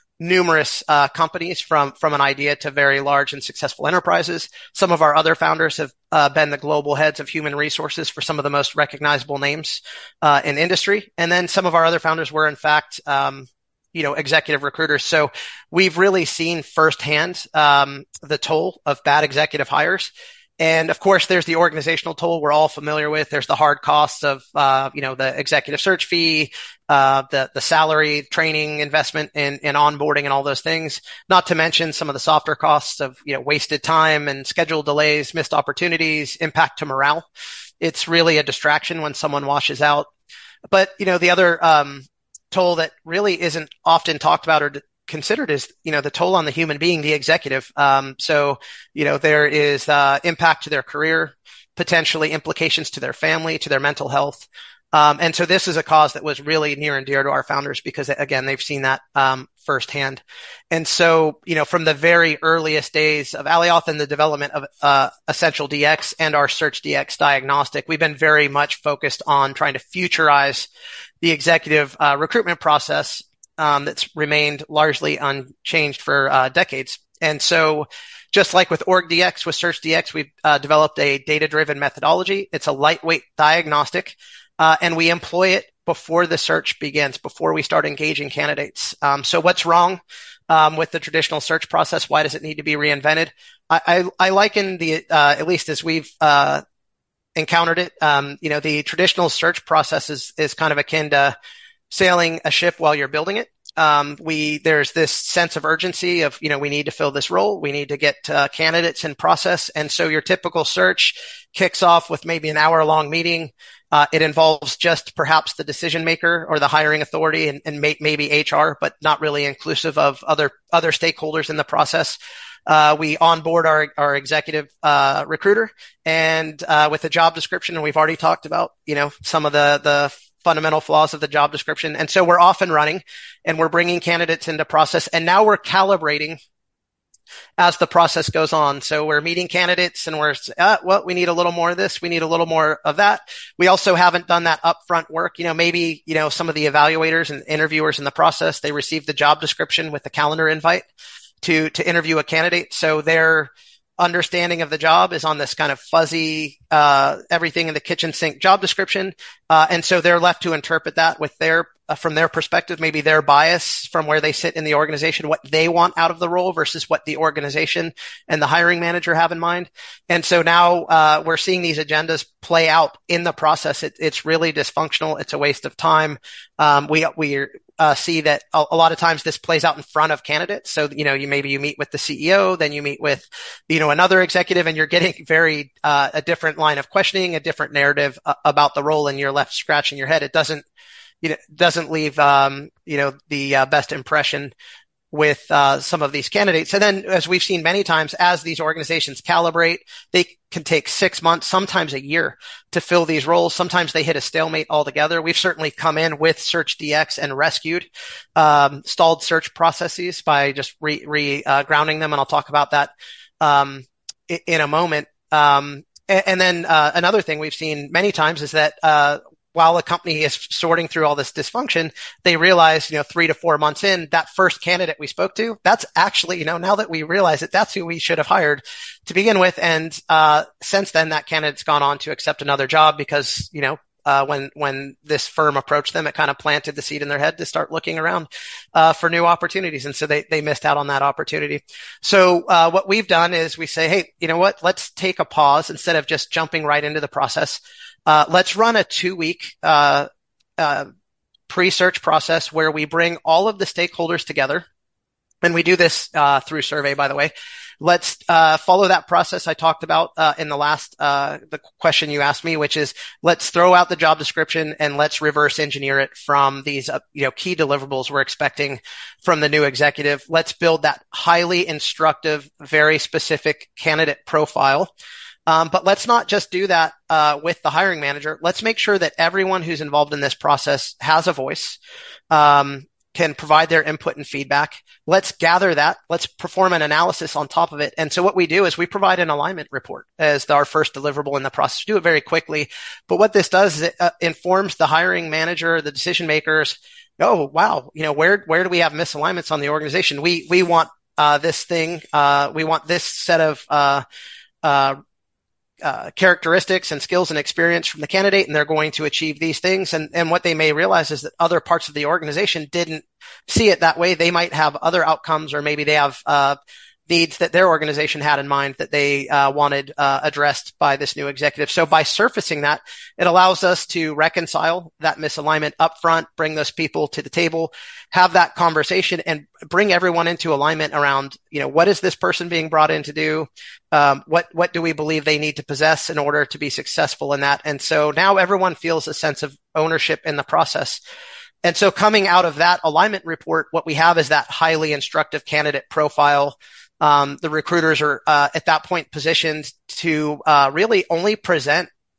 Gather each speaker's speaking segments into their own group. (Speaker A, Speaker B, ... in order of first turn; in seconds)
Speaker A: 0.2-37.2, 37.8-40.1, 40.7-70.7, 71.2-96.6, 97.4-101.3, 101.9-136.4, 137.6-150.8, 151.4-190.7, 191.2-194.5, 195.1-250.1, 250.6-250.9, 251.5-254.7, 255.4-274.9, 275.5-281.8, 282.3-304.0, 304.6-305.0, 305.8-316.6, 317.1-341.0, 341.6-351.9